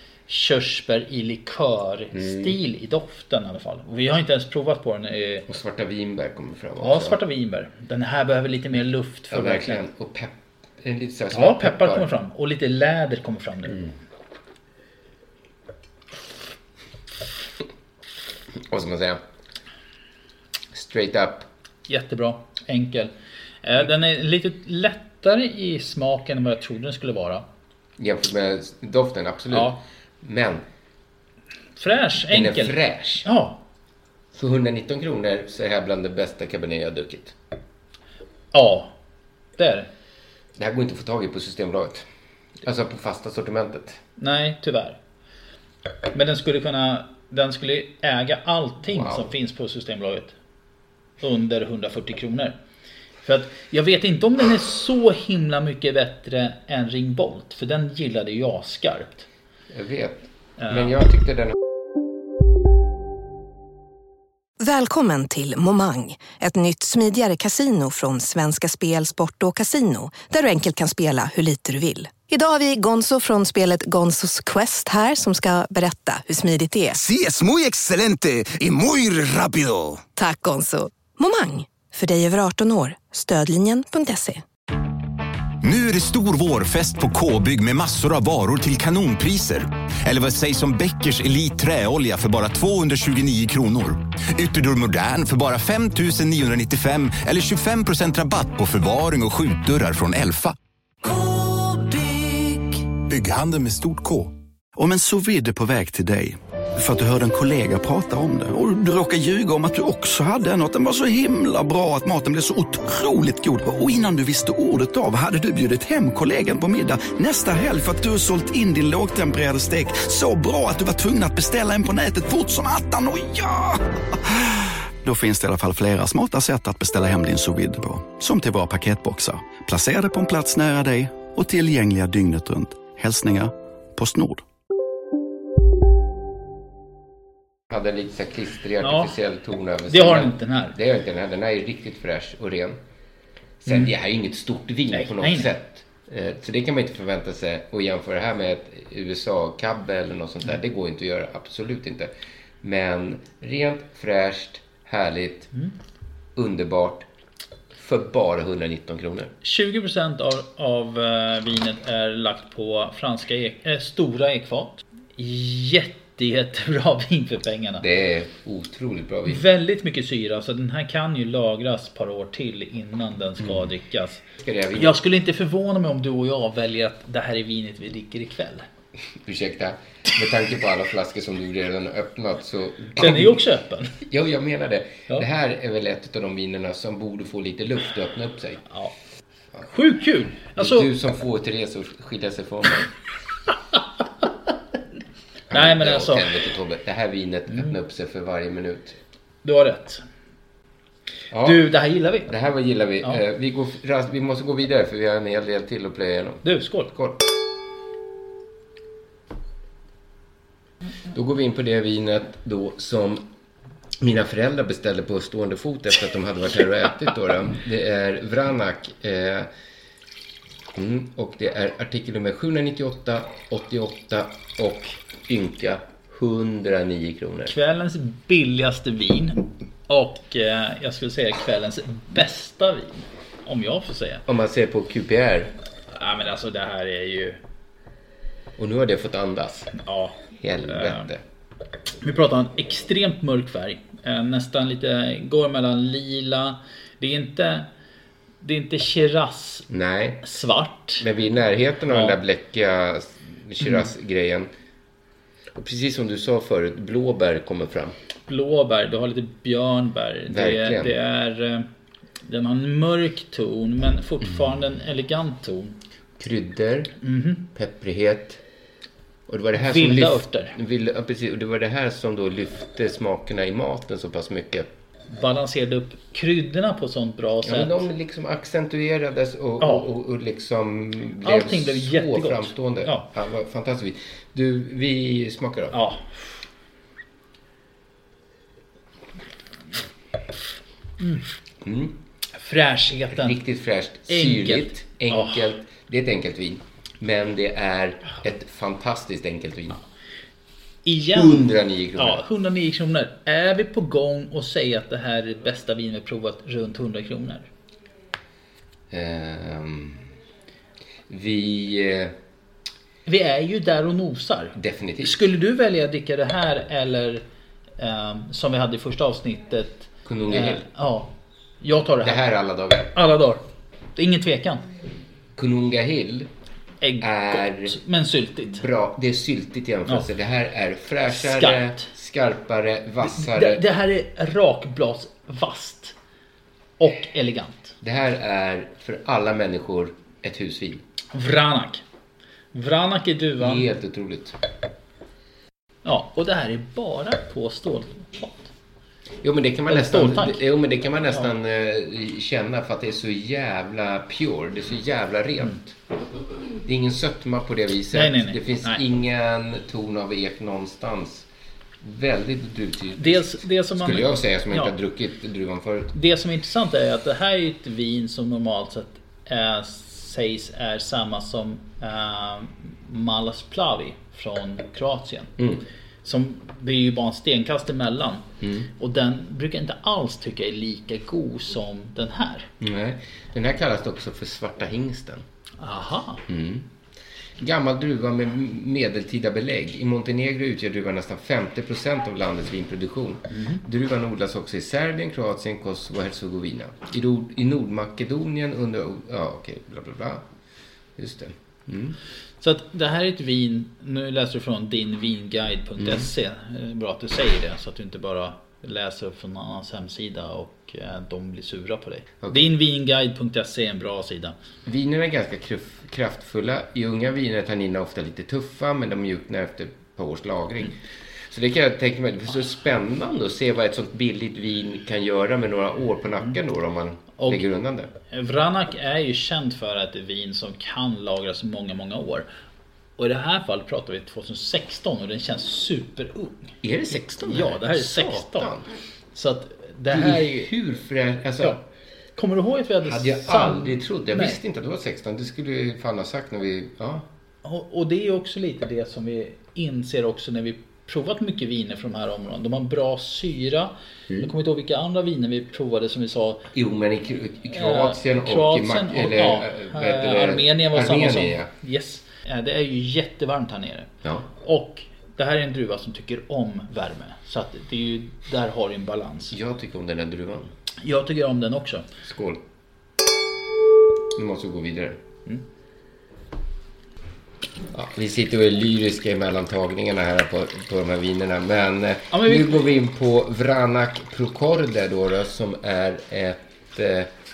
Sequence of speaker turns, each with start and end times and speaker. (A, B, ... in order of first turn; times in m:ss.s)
0:00.3-0:05.5 A
0:02.1-0:02.5 B
0:05.5-0:07.2 B
0:06.8-0:09.8 A
0:09.3-0:12.1 B
0:11.3-0:13.9 A
0:18.7-0:19.2 B
0:20.7-0:21.5 B
0:21.9-0:23.1 A
0:23.6-0:27.4 A
0:28.0-0:30.6 B
0:29.5-0:29.8 A
0:31.8-0:33.6 A
0:32.3-0:33.2 B
0:34.3-0:37.4 B
0:38.5-0:38.9 A
0:39.6-0:39.9 A
0:40.6-0:42.1 B
0:42.6-0:44.0 B
0:44.2-0:45.0 A
0:46.1-0:50.3 A
0:48.9-0:49.3 B
0:51.2-0:52.6 A
0:53.2-0:59.2 A
0:59.7-1:01.6 B
1:00.6-1:00.9 A
1:04.6-1:17.0 C
1:16.9-1:20.1 D
1:20.2-1:24.4 C
1:25.6-1:43.0 D
1:43.1-2:04.4 E
2:05.0-2:14.4 E
2:17.7-2:22.8 B
2:18.8-2:19.1 A
2:19.9-2:20.8 A
2:23.6-2:32.1 B
2:24.9-2:25.5 A
2:32.6-2:35.5 B
2:36.3-2:37.1 B
2:37.7-2:39.3 B
2:39.4-2:47.8 A
2:47.8-2:49.4 B
2:49.3-2:54.2 A
2:54.4-2:55.0 B
2:54.8-2:58.6 A
2:59.2-3:03.4 B
3:03.0-3:04.0 A
3:04.0-3:08.6 B
3:09.7-3:10.9 A
3:10.6-3:12.9 B
3:15.5-3:19.0 B
3:15.5-3:16.4 A
3:19.4-3:20.0 A
3:21.3-3:21.7 B
3:21.4-3:22.3 A
3:22.2-3:27.2 B
3:26.4-3:26.9 A
3:31.1-3:33.3 B
3:34.0-3:39.5 B
3:40.7-3:47.5 B
3:47.4-3:54.2 A
3:54.2-3:55.5 B
3:55.9-3:57.4 A
3:58.6-3:59.7 B
3:59.7-4:01.1 A
4:00.4-4:01.2 B
4:02.0-4:07.7 A
4:08.4-4:09.7 A
4:09.7-4:10.2 B
4:10.2-4:11.0 A
4:11.0-4:14.5 B
4:11.9-4:12.2 A
4:13.6-4:13.9 A
4:15.5-4:17.9 B
4:18.3-4:21.7 A
4:20.3-4:21.0 B
4:22.2-4:25.8 A
4:26.2-4:26.9 B
4:27.0-4:27.4 A
4:27.5-4:28.4 B
4:29.3-4:34.7 B
4:29.5-4:30.6 A
4:35.1-4:37.8 A
4:37.4-4:45.8 B
4:39.6-4:39.9 A
4:41.2-4:43.1 A
4:45.7-4:46.3 A
4:51.0-4:51.2 A
4:51.6-4:52.0 B
4:52.4-4:53.4 A
4:53.1-4:59.8 B
4:54.1-4:55.4 A
5:00.8-5:07.5 A
5:01.1-5:02.2 B
5:08.9-5:10.0 B
5:11.1-5:12.1 B
5:13.0-5:17.2 A
5:14.5-5:15.2 B
5:17.8-5:22.3 A
5:20.0-5:20.6 B
5:22.0-5:22.9 B
5:22.9-5:23.4 A
5:24.0-5:24.7 A
5:25.4-5:26.3 B
5:26.8-5:28.6 A
5:27.0-5:27.8 B
5:28.5-5:33.6 B
5:31.1-5:31.9 A
5:33.0-5:35.9 A
5:36.8-5:37.8 A
5:37.8-5:40.8 B
5:41.1-5:41.8 A
5:42.5-5:43.7 A
5:43.4-5:44.4 B
5:45.8-5:48.5 A
5:49.2-5:55.8 B
5:49.7-5:50.4 A
5:56.6-6:01.3 B
5:57.9-5:58.8 A
6:01.8-6:05.9 B
6:03.0-6:04.7 A
6:05.9-6:15.3 A
6:15.4-6:15.6 B
6:16.0-6:22.5 A
6:18.4-6:18.7 B
6:22.6-6:25.2 B
6:25.6-6:26.2 A
6:26.2-6:26.6 B
6:27.4-6:40.2 B
6:33.3-6:33.6 A
6:41.0-6:42.0 B
6:42.4-6:54.3 A
6:45.8-6:46.1 B
6:54.6-7:07.9 B
7:07.2-7:07.4 A
7:08.1-7:12.3 A
7:13.0-7:18.5 A
7:16.6-7:18.7 B
7:19.1-7:20.5 A
7:19.9-7:21.6 B
7:22.2-7:24.4 A
7:22.8-7:27.1 B
7:27.4-7:36.5 A
7:36.5-7:41.5 B
7:37.5-7:49.3 A
7:49.3-7:50.5 B
7:50.8-7:51.9 A
7:52.0-7:52.4 B
7:54.1-7:55.0 B
7:57.7-8:07.1 B
8:02.1-8:02.6 A